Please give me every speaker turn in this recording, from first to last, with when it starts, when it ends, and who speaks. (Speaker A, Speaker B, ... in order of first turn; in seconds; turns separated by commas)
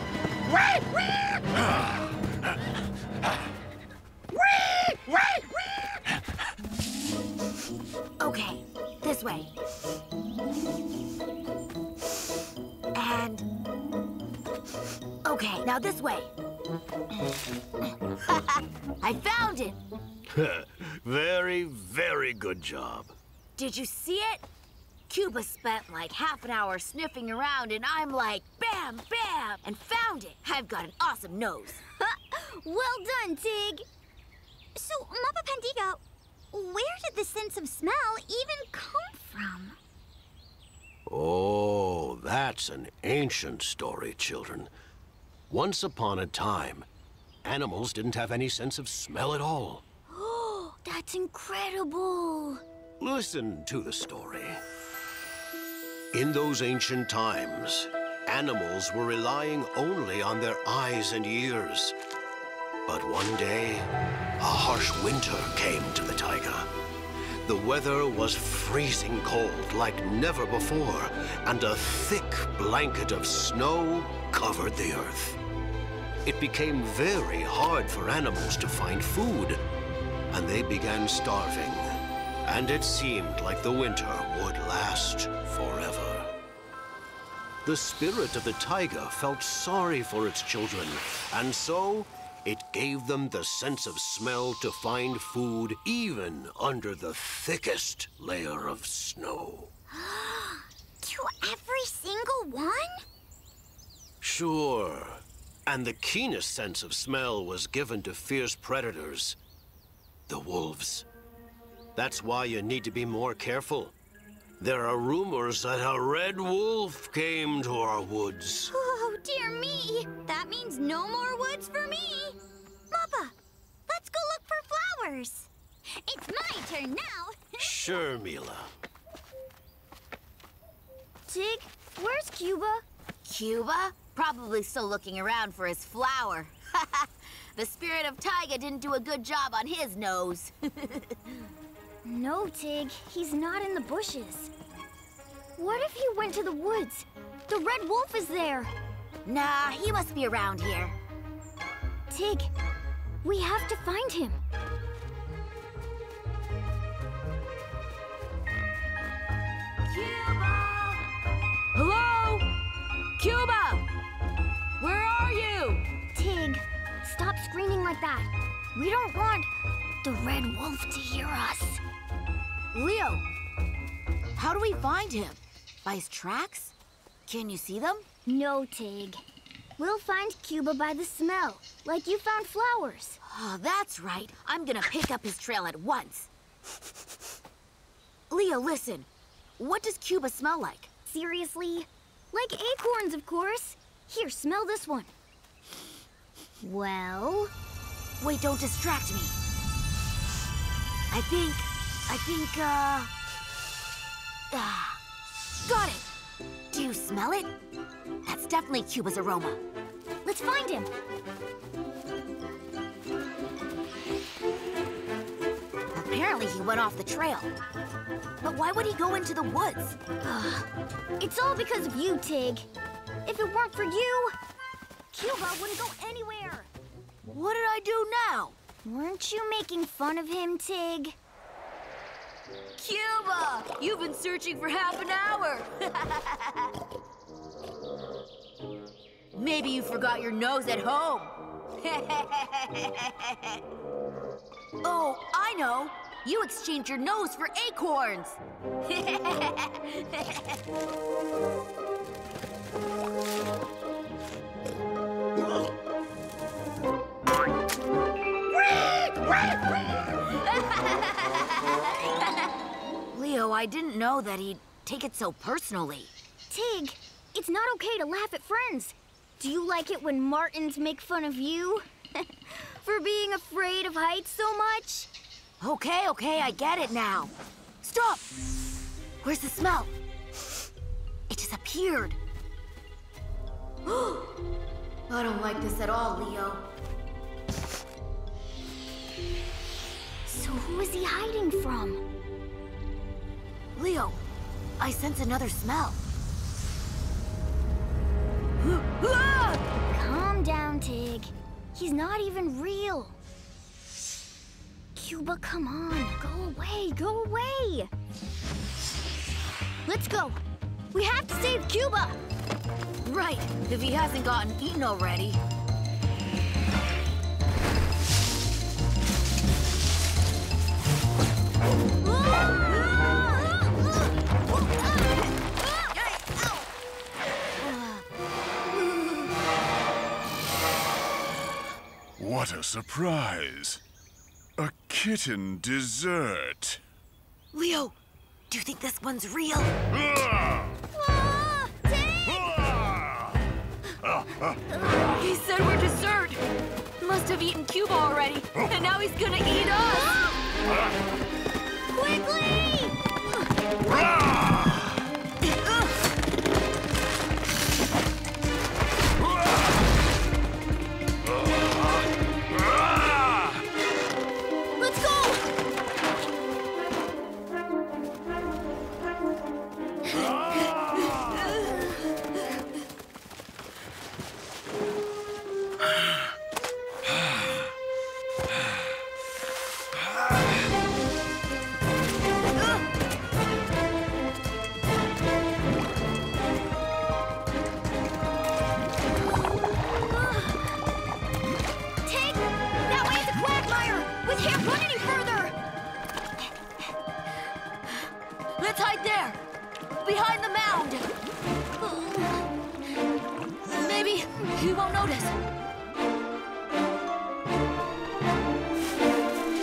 Speaker A: 1.5-2.1, Speaker B: 8.2-9.5, Speaker B: 12.9-13.5, Speaker B: 15.2-16.3, Speaker B: 19.0-19.8, Speaker C: 20.3-23.1, Speaker B: 23.6-24.4, Speaker B: 25.1-31.8, Speaker D: 32.0-33.9, Speaker E: 34.8-36.0, Speaker E: 36.5-39.8, Speaker C: 41.1-44.7, Speaker C: 45.5-46.9, Speaker C: 47.4-49.8, Speaker D: 50.1-52.6, Speaker C: 53.0-54.6, Speaker C: 56.1-62.0, Speaker C: 62.9-66.7, Speaker C: 67.5-75.4, Speaker C: 76.2-79.6, Speaker C: 80.3-86.3, Speaker C: 87.6-99.7, Speaker E: 99.9-103.0, Speaker C: 104.2-109.4, Speaker C: 110.3-111.1, Speaker C: 112.0-114.0, Speaker C: 114.6-118.7, Speaker E: 118.7-122.4, Speaker E: 122.9-123.3, Speaker E: 123.9-127.7, Speaker C: 127.6-128.7, Speaker D: 131.3-132.8, Speaker B: 133.2-141.2, Speaker D: 142.0-144.5, Speaker D: 145.6-148.7, Speaker B: 149.2-150.9, Speaker D: 152.1-152.5, Speaker D: 153.2-154.4, Speaker B: 159.9-161.1, Speaker B: 161.8-162.5, Speaker B: 163.2-163.8, Speaker B: 164.8-165.8, Speaker D: 166.2-169.5, Speaker D: 170.0-171.8, Speaker B: 172.7-173.2, Speaker B: 174.4-176.7, Speaker B: 177.3-178.1, Speaker D: 178.3-179.2, Speaker D: 179.8-183.2, Speaker B: 183.2-186.3, Speaker B: 188.3-189.1, Speaker B: 189.6-190.9, Speaker D: 191.1-195.1, Speaker D: 196.6-197.5, Speaker B: 198.2-199.4, Speaker B: 201.1-203.1, Speaker B: 204.5-205.0, Speaker B: 205.6-206.1, Speaker B: 206.7-207.5, Speaker B: 208.2-209.6, Speaker D: 210.2-210.9, Speaker B: 215.9-217.5, Speaker B: 218.4-220.0, Speaker D: 220.2-220.7, Speaker D: 221.2-222.7, Speaker D: 223.2-224.3, Speaker D: 225.1-226.7, Speaker B: 227.3-228.6, Speaker D: 228.8-231.2, Speaker B: 232.8-236.7, Speaker B: 239.3-243.6, Speaker B: 244.8-250.5, Speaker B: 263.1-266.1, Speaker D: 266.5-275.1, Speaker B: 275.6-278.3, Speaker B: 279.2-279.9, Speaker B: 281.3-282.2, Speaker B: 283.9-284.3, Speaker B: 285.1-286.6, Speaker D: 290.3-292.1, Speaker B: 293.8-294.2, Speaker B: 294.8-296.0, Speaker B: 298.6-299.6, Speaker D: 299.9-303.2, Speaker D: 305.0-307.9, Speaker D: 309.9-310.4, Speaker D: 310.9-312.2, Speaker B: 313.1-315.4, Speaker D: 322.0-323.6, Speaker B: 327.7-328.0, Speaker A: 332.2-333.8, Speaker A: 334.6-336.8, Speaker B: 337.5-337.9, Speaker B: 338.5-339.8, Speaker A: 339.9-340.7, Speaker D: 340.9-342.5, Speaker A: 342.7-343.1, Speaker A: 344.1-344.5, Speaker B: 345.2-346.4, Speaker B: 347.0-350.2, Speaker D: 351.9-353.0, Speaker A: 353.8-354.9, Speaker A: 361.4-361.9, Speaker A: 362.6-363.5, Speaker D: 364.8-365.4, Speaker A: 370.2-371.2, Speaker D: 389.9-390.6, Speaker D: 392.1-395.6, Speaker B: 398.6-399.4, Speaker B: 400.0-401.1, Speaker B: 403.7-405.4